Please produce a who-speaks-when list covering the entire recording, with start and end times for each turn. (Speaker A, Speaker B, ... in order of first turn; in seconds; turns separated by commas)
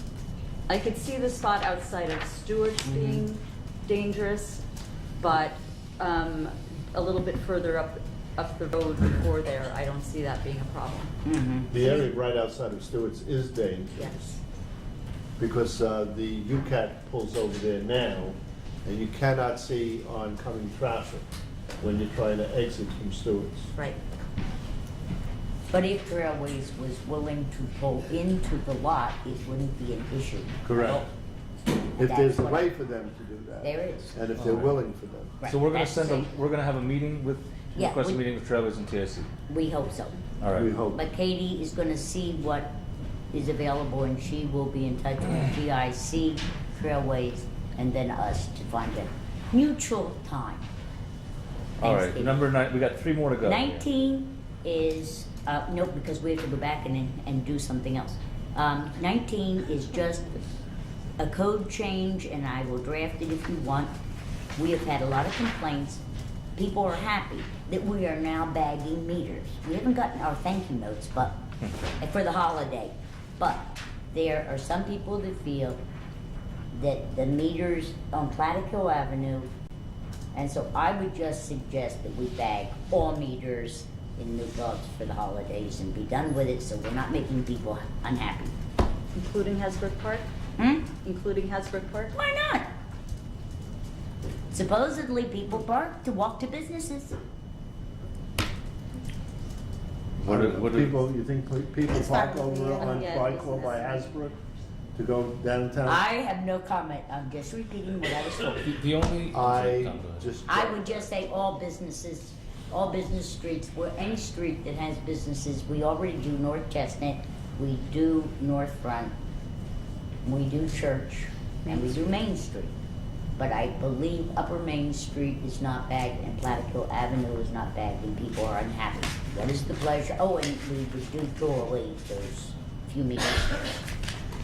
Speaker A: 0.7-4.6, Speaker B: 2.9-3.3, Speaker A: 5.2-11.1, Speaker B: 11.2-11.7, Speaker C: 11.7-14.4, Speaker A: 14.0-14.2, Speaker C: 15.4-21.2, Speaker C: 21.8-23.7, Speaker B: 25.7-31.1, Speaker C: 30.6-31.0, Speaker C: 32.0-35.4, Speaker B: 32.0-32.7, Speaker B: 33.6-34.2, Speaker D: 34.4-34.7, Speaker B: 35.4-36.3, Speaker D: 35.5-39.3, Speaker B: 37.8-38.2, Speaker B: 39.5-40.2, Speaker D: 40.4-40.7, Speaker C: 40.5-41.0, Speaker B: 40.9-42.7, Speaker B: 43.3-50.7, Speaker B: 51.8-52.4, Speaker D: 51.8-53.9, Speaker B: 53.4-60.4, Speaker B: 61.2-63.9, Speaker B: 64.6-66.0, Speaker B: 66.5-71.4, Speaker B: 72.0-75.8, Speaker B: 76.7-79.5, Speaker B: 80.3-88.5, Speaker A: 89.2-90.3, Speaker B: 90.6-90.9, Speaker A: 90.9-92.1, Speaker B: 92.1-92.7, Speaker B: 94.5-97.2, Speaker D: 100.2-101.0, Speaker C: 100.2-104.4, Speaker A: 101.9-104.2, Speaker C: 105.0-106.0, Speaker B: 105.9-108.7, Speaker D: 108.5-110.3, Speaker C: 109.3-111.1, Speaker B: 110.5-119.2, Speaker B: 120.2-122.8, Speaker B: 123.4-133.7